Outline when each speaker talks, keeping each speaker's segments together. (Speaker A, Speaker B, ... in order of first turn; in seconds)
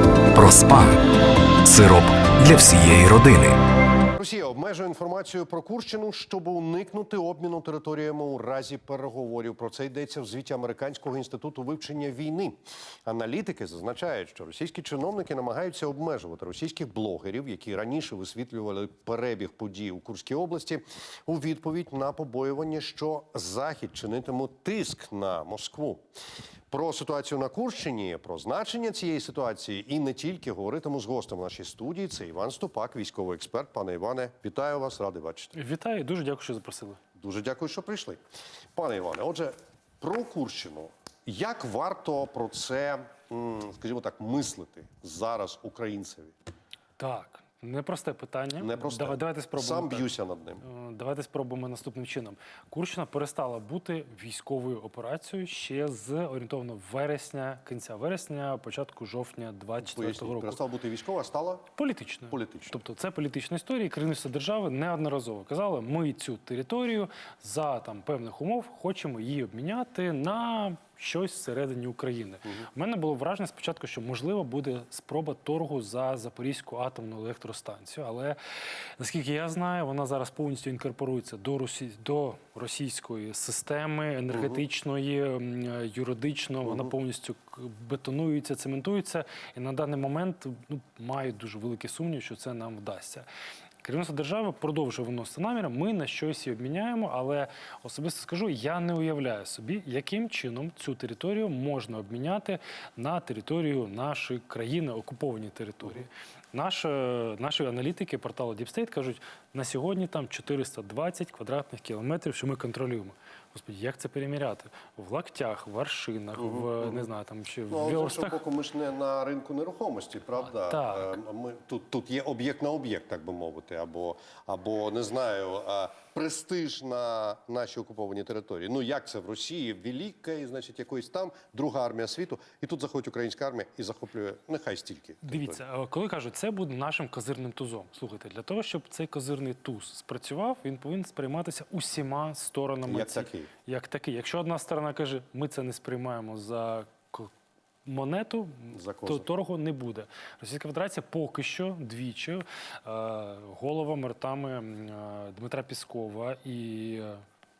Speaker A: 0.3-1.0, 1.6-3.6
Speaker B: 4.1-26.1, 26.7-35.5, 37.2-38.2, 38.8-46.3, 48.6-50.6, 59.8-61.7, 62.3-62.8, 84.3-84.6, 86.7-86.9, 116.4-117.1, 117.7-135.6, 142.8-143.5, 148.7-149.3
Speaker C: 35.5-37.0, 47.0-50.1, 50.6-60.6, 61.8-78.4, 79.0-93.3, 93.8-118.4, 120.4-121.1, 135.2-147.3, 147.8-157.2